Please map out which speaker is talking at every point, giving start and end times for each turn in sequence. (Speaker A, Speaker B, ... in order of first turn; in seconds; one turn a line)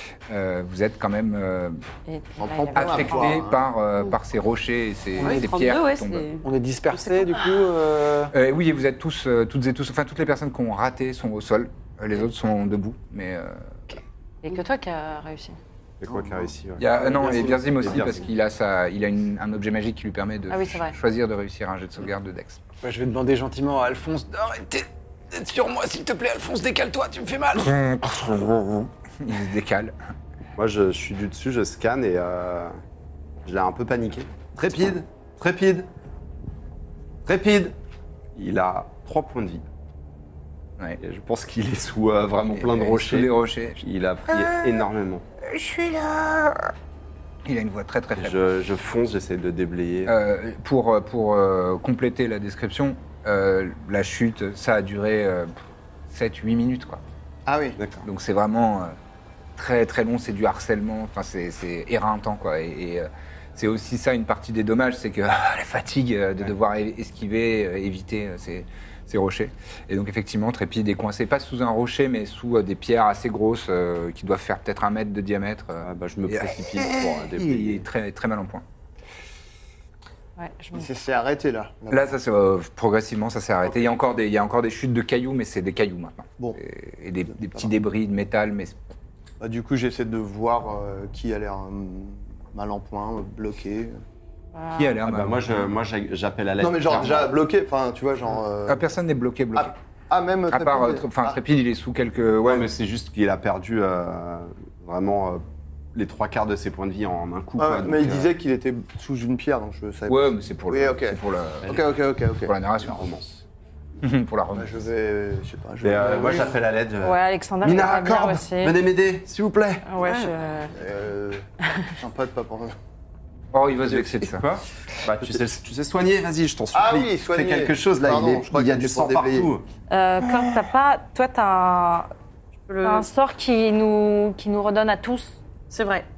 Speaker A: 0.3-1.8
Speaker B: 2.1-3.5
Speaker C: 2.4-3.7
Speaker A: 2.8-6.3
Speaker D: 5.2-5.5
Speaker E: 5.2-7.4
Speaker D: 6.4-8.3
Speaker A: 8.3-13.8
Speaker B: 14.4-15.6
Speaker F: 16.0-18.3
Speaker A: 16.8-22.6
Speaker D: 17.3-17.6
Speaker B: 20.5-21.0
Speaker D: 22.8-27.8
Speaker A: 27.6-29.9
Speaker F: 30.6-32.8
Speaker F: 33.5-35.9
Speaker F: 37.2-37.8
Speaker F: 38.4-39.6
Speaker F: 41.0-45.2
Speaker A: 42.5-43.8
Speaker A: 45.5-46.6
Speaker A: 47.5-48.4
Speaker F: 48.1-50.1
Speaker A: 50.1-55.5
Speaker A: 56.1-57.0
Speaker C: 57.5-57.8
Speaker F: 57.8-58.1
Speaker A: 58.0-59.0
Speaker A: 59.6-78.6
Speaker F: 75.8-77.9
Speaker B: 80.4-80.9
Speaker C: 80.7-82.2
Speaker A: 81.9-88.8
Speaker C: 87.4-87.7
Speaker C: 89.4-94.0
Speaker B: 94.5-95.0
Speaker A: 94.8-95.6
Speaker F: 95.0-97.3
Speaker C: 96.6-98.8
Speaker A: 98.7-99.7
Speaker C: 99.5-101.4
Speaker A: 100.5-102.7
Speaker F: 102.4-105.4
Speaker F: 106.0-108.3
Speaker C: 107.6-112.5
Speaker A: 110.1-111.8
Speaker A: 112.4-113.0
Speaker F: 112.7-113.4
Speaker A: 114.0-114.8
Speaker C: 114.5-116.6
Speaker F: 115.8-119.8
Speaker B: 117.0-118.8
Speaker B: 119.8-120.7
Speaker E: 120.0-120.3
Speaker C: 120.7-122.8
Speaker A: 123.5-124.5
Speaker F: 123.8-129.7
Speaker C: 126.7-129.5
Speaker B: 129.9-132.1
Speaker E: 132.7-133.1
Speaker B: 132.8-135.3
Speaker E: 135.7-136.1